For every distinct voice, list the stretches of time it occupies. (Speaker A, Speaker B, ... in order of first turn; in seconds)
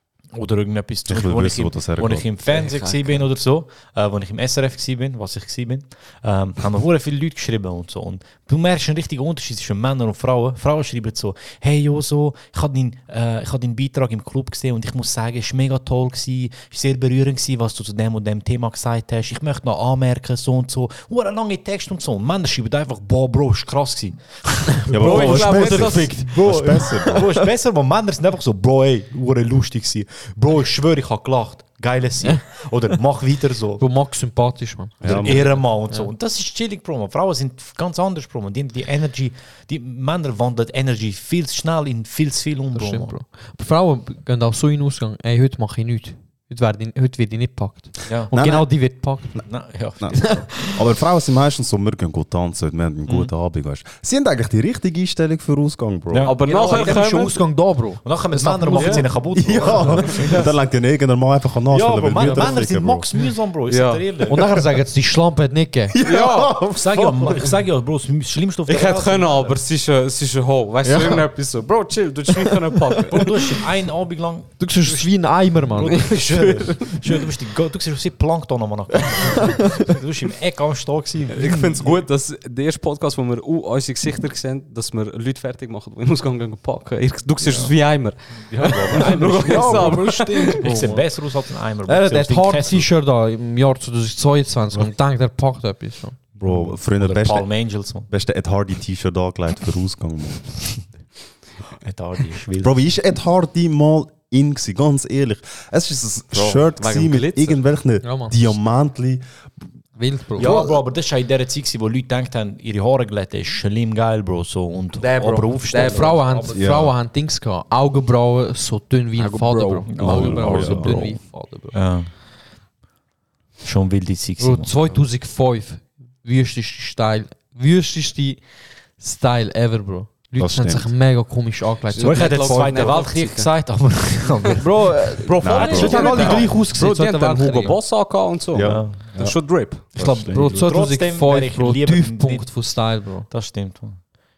Speaker A: 0.3-33.8, 35.0-43.1, 49.4-50.4, 56.1-57.1, 58.0-60.4, 61.7-64.4, 66.8-69.6, 73.1-75.1, 75.7-81.9, 87.4-87.7, 88.4-92.9, 96.3-98.1, 101.8-102.7, 110.3-116.5, 119.9-121.2, 121.7-122.1, 123.6-124.7, 132.0-134.7, 135.9-136.3, 138.6-139.1, 139.9-142.5, 143.3-144.0
Speaker B: 1.1-2.2, 24.9-27.3, 35.0-35.6, 48.3-48.7, 50.0-56.3, 59.3-63.0, 65.9-67.1, 96.4-97.5, 98.1-100.4, 102.6-109.2, 110.4-110.7, 116.5-117.0, 120.0-121.0, 130.4-130.9, 135.4-136.5, 138.5-139.3, 139.9-140.6
Speaker C: 2.5-3.2, 25.0-26.1, 56.2-57.4, 63.7-64.2, 66.0-66.5, 68.7-73.3, 75.9-76.8, 81.3-90.7, 106.3-107.6, 115.1-116.3, 119.2-119.9, 131.9-133.5, 135.4-139.9
Speaker D: 24.9-27.4, 33.8-36.1, 42.7-49.4, 50.2-50.8, 56.5-59.1, 59.8-60.5, 62.1-62.7, 64.3-67.5, 70.8-71.2, 72.3-73.3, 74.6-76.1, 79.1-79.8, 88.8-91.0, 91.8-96.2, 108.0-108.4, 110.0-110.7, 115.0-121.7, 124.4-128.4, 129.0-133.0, 134.6-137.8, 140.3-143.3